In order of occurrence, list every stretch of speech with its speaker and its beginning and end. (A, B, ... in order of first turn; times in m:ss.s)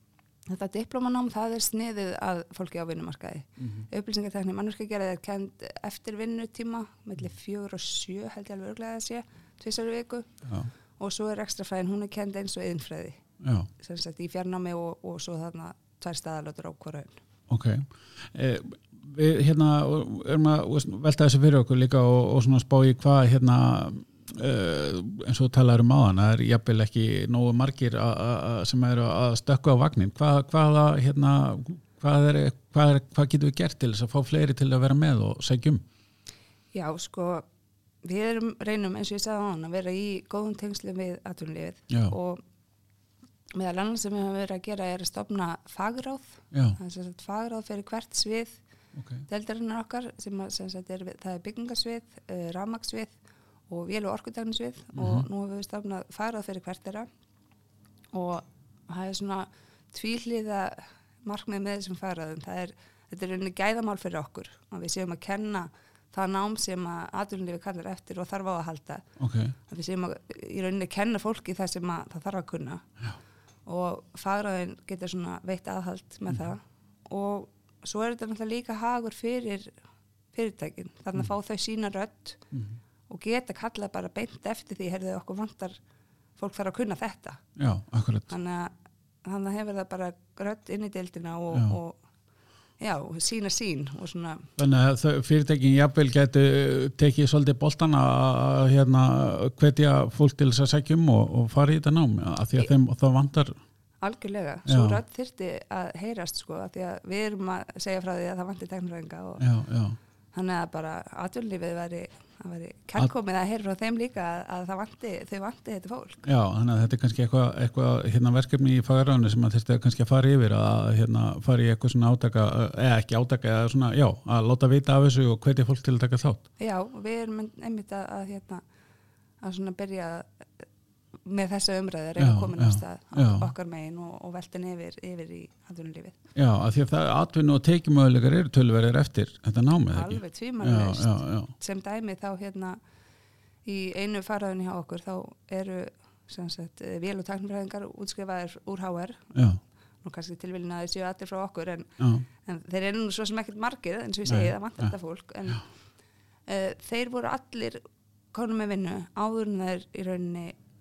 0:00.5-0:10.4 A
0:03.6-0:03.9 B
0:10.4-0:10.7 B
0:11.0-0:13.2 A
0:13.4-0:13.7 B
0:13.8-0:17.2 A
0:17.5-0:35.8 B
0:36.7-0:37.5 A
0:38.0-0:42.4 A
0:43.5-0:48.6 A
0:46.5-0:46.8 B
0:49.0-0:49.2 B
0:49.3-0:53.1 A
0:53.7-0:57.1 A
0:55.0-0:55.3 B
0:58.1-1:09.1 A
1:09.2-1:09.6 B
1:09.7-1:12.9 A
1:13.7-1:19.7 A
1:20.3-1:22.4 A
1:22.5-1:22.8 B
1:23.1-1:25.8 A
1:26.4-1:27.4 A
1:27.6-1:28.3 B
1:28.3-1:28.7 A
1:29.2-1:32.0 A
1:32.8-1:34.5 A
1:34.6-1:43.6 B
1:44.0-1:49.4 A
1:44.7-1:45.0 B
1:49.4-1:50.0 B
1:50.3-1:56.2 A
1:56.2-2:06.4 B
2:06.6-2:08.6 A
2:09.4-2:10.4 A
2:11.2-2:16.2 A
2:12.2-2:13.5 B
2:16.4-2:21.5 B
2:19.9-2:22.8 A
2:23.6-2:29.3 A
2:29.3-2:29.6 B
2:30.0-2:35.6 A
2:32.0-2:32.3 B
2:34.3-2:34.9 B
2:36.5-2:37.8 A
2:38.3-2:40.6 A